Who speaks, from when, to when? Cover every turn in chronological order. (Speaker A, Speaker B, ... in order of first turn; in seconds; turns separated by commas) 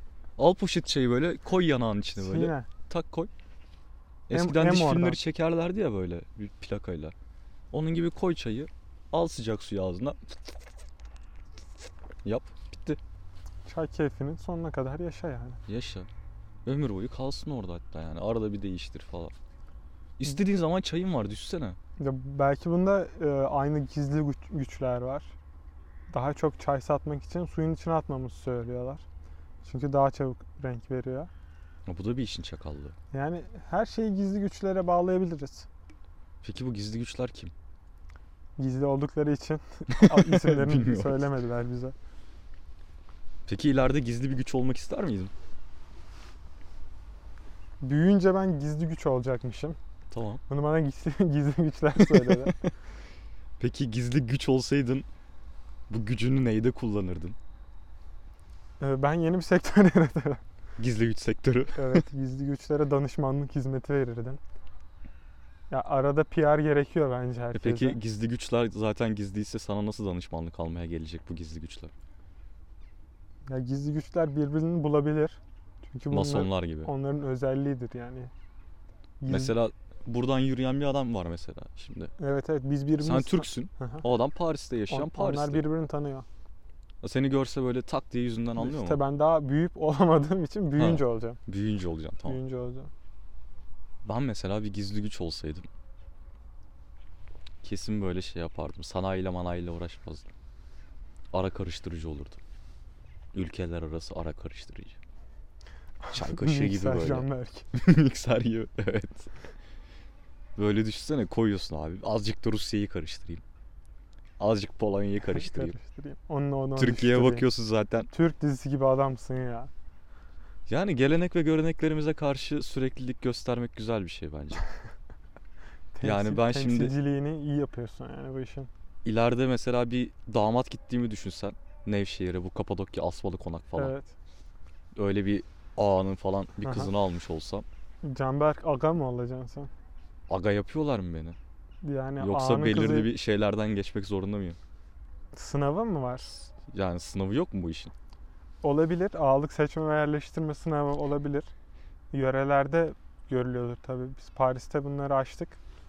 Speaker A: 0.4-3.3, Speaker B: 2.2-2.7, Speaker A: 4.3-7.1, Speaker B: 4.3-5.2, Speaker A: 7.7-10.2, Speaker A: 12.2-13.0, Speaker B: 13.7-15.6, Speaker A: 15.7-16.1, Speaker A: 16.6-19.3, Speaker A: 20.2-21.8, Speaker B: 22.0-25.4, Speaker B: 26.1-29.0, Speaker B: 29.6-31.3, Speaker A: 31.9-33.0, Speaker B: 33.1-35.7, Speaker A: 36.4-37.5, Speaker B: 38.6-42.0, Speaker A: 39.9-41.3, Speaker A: 43.5-45.3, Speaker B: 47.8-49.8, Speaker A: 50.1-50.4, Speaker B: 50.5-52.6, Speaker A: 52.0-52.5, Speaker A: 53.6-55.1, Speaker A: 55.9-57.4, Speaker B: 58.8-60.4, Speaker A: 60.8-62.0, Speaker B: 61.8-64.4, Speaker B: 65.7-68.0, Speaker A: 67.5-71.9, Speaker B: 73.5-78.3, Speaker A: 76.1-76.9, Speaker B: 79.2-79.5, Speaker A: 79.3-82.1, Speaker B: 82.2-84.0, Speaker A: 83.0-85.7, Speaker B: 84.9-86.3, Speaker A: 87.0-89.0, Speaker B: 88.6-91.4, Speaker A: 90.8-92.4, Speaker B: 92.2-92.9, Speaker A: 94.0-95.7, Speaker A: 97.6-100.3, Speaker A: 101.3-102.4, Speaker A: 103.3-105.0, Speaker B: 106.0-107.7, Speaker A: 106.1-109.3, Speaker A: 110.6-113.4, Speaker A: 114.4-115.8, Speaker B: 115.3-117.5, Speaker A: 116.8-118.1, Speaker B: 118.1-119.7, Speaker A: 120.7-124.6, Speaker B: 125.9-128.7, Speaker A: 126.0-127.0, Speaker A: 129.0-133.9, Speaker B: 133.8-134.1, Speaker A: 135.0-137.7, Speaker B: 136.6-136.9, Speaker B: 138.0-139.7, Speaker A: 140.3-141.4, Speaker B: 141.8-143.1, Speaker A: 142.2-144.6, Speaker B: 145.3-146.4, Speaker A: 146.6-147.9, Speaker B: 148.6-151.5, Speaker B: 152.1-155.6